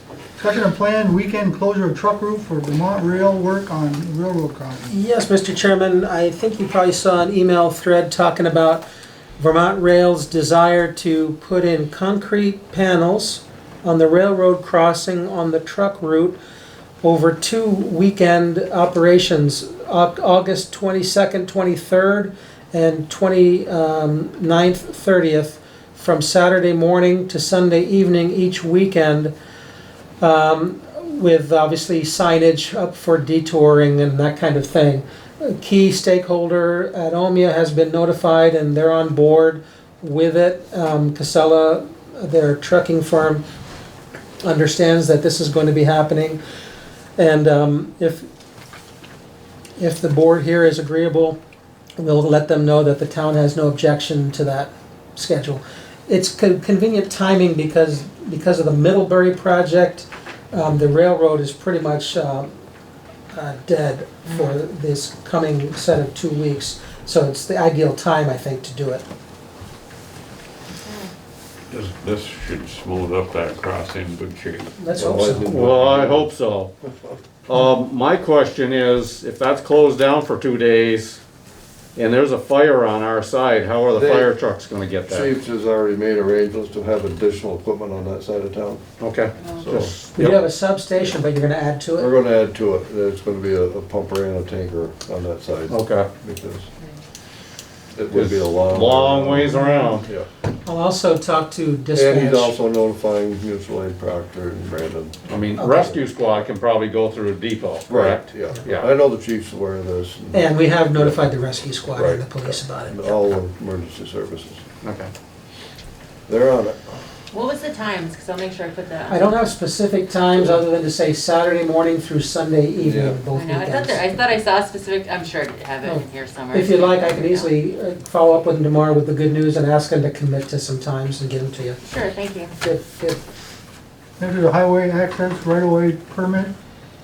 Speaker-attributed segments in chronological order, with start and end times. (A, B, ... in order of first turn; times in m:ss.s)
0:00.4-0:04.9 A
0:04.9-0:08.8 B
0:09.4-0:16.4 B
0:17.0-0:29.3 B
0:30.2-0:43.4 B
0:44.4-0:46.4 B
0:47.2-0:48.3 B
0:49.8-0:51.4 B
0:52.0-1:02.5 B
1:03.3-1:09.0 B
1:04.3-1:04.5 C
1:10.8-1:11.1 C
1:11.7-1:14.8 D
1:14.8-1:15.6 B
1:15.0-1:16.3 E
1:15.2-1:16.7 F
1:16.8-1:17.2 E
1:17.5-1:21.2 F
1:22.0-1:25.3 F
1:23.9-1:24.3 E
1:25.1-1:28.8 E
1:29.0-1:30.4 F
1:29.6-1:30.0 E
1:30.2-1:32.1 B
1:32.0-1:36.7 E
1:35.7-1:36.1 F
1:37.9-1:40.3 E
1:38.1-1:40.1 F
1:40.6-1:42.6 B
1:42.0-1:45.9 E
1:45.3-1:48.9 F
1:45.6-1:46.0 B
1:47.9-1:51.3 E
1:50.3-1:53.1 B
1:51.9-1:54.6 E
1:54.8-1:55.1 F
1:56.3-1:57.0 E
1:57.3-1:59.2 C
1:59.1-2:04.1 B
2:02.8-2:03.2 E
2:03.3-2:07.5 C
2:05.8-2:11.8 B
2:11.8-2:12.6 C
2:12.6-2:13.2 B
2:14.2-2:16.6 A